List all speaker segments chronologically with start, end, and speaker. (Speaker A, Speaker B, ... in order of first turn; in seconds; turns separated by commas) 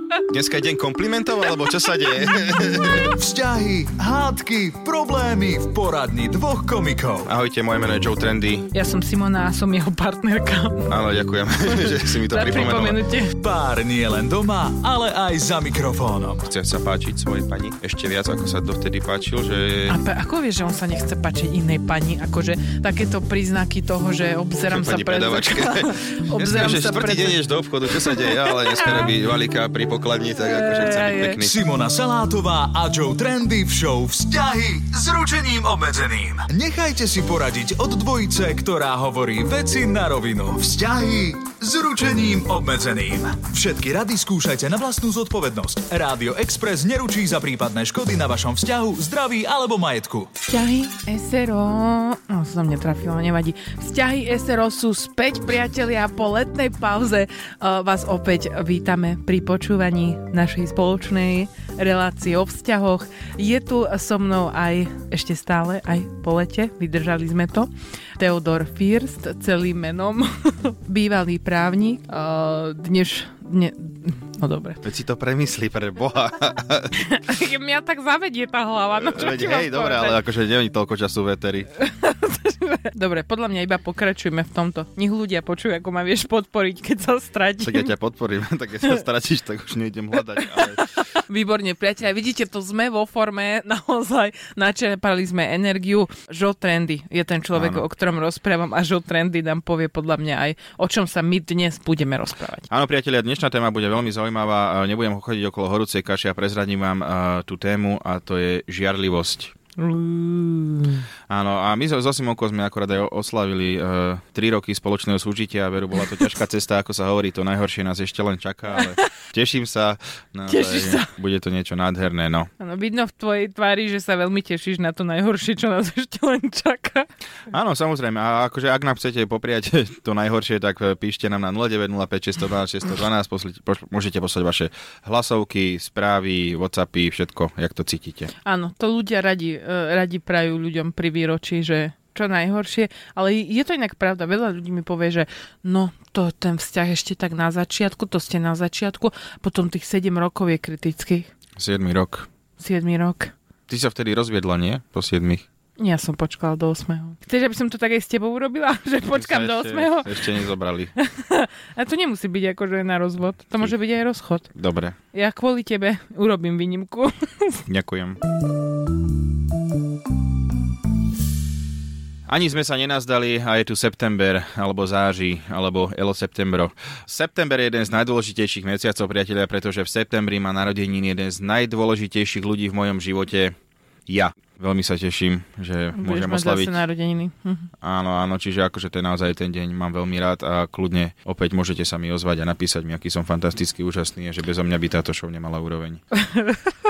Speaker A: 0.3-3.1, Speaker B: 3.1-7.3, Speaker A: 7.2-8.7, Speaker C: 8.7-10.9, Speaker A: 10.9-13.0, Speaker C: 11.7-13.3, Speaker B: 13.3-16.5, Speaker A: 16.4-20.0, Speaker C: 19.9-29.1, Speaker A: 24.7-31.6, Speaker C: 30.4-31.4, Speaker B: 31.4-50.3, Speaker C: 50.5-74.8, Speaker A: 74.8-77.0, Speaker C: 76.9-80.2, Speaker A: 78.9-81.7, Speaker C: 81.8-87.9, Speaker A: 87.6-90.9, Speaker C: 90.4-102.7, Speaker A: 97.5-97.9, Speaker A: 102.7-109.5, Speaker C: 109.8-111.0, Speaker A: 111.3-122.5, Speaker C: 118.8-119.0, Speaker C: 120.5-121.1, Speaker C: 122.6-127.1, Speaker A: 127.5-138.3, Speaker C: 138.4-151.3, Speaker A: 151.6-152.3, Speaker C: 152.6-153.3, Speaker A: 153.7-155.4, Speaker C: 155.8-160.3, Speaker A: 159.1-160.9, Speaker C: 161.0-164.5, Speaker A: 164.5-165.0, Speaker C: 165.1-167.6, Speaker A: 167.7-168.2, Speaker A: 172.3-183.5, Speaker A: 184.1-186.8, Speaker C: 185.9-187.7, Speaker A: 187.8-196.0, Speaker C: 196.2-196.7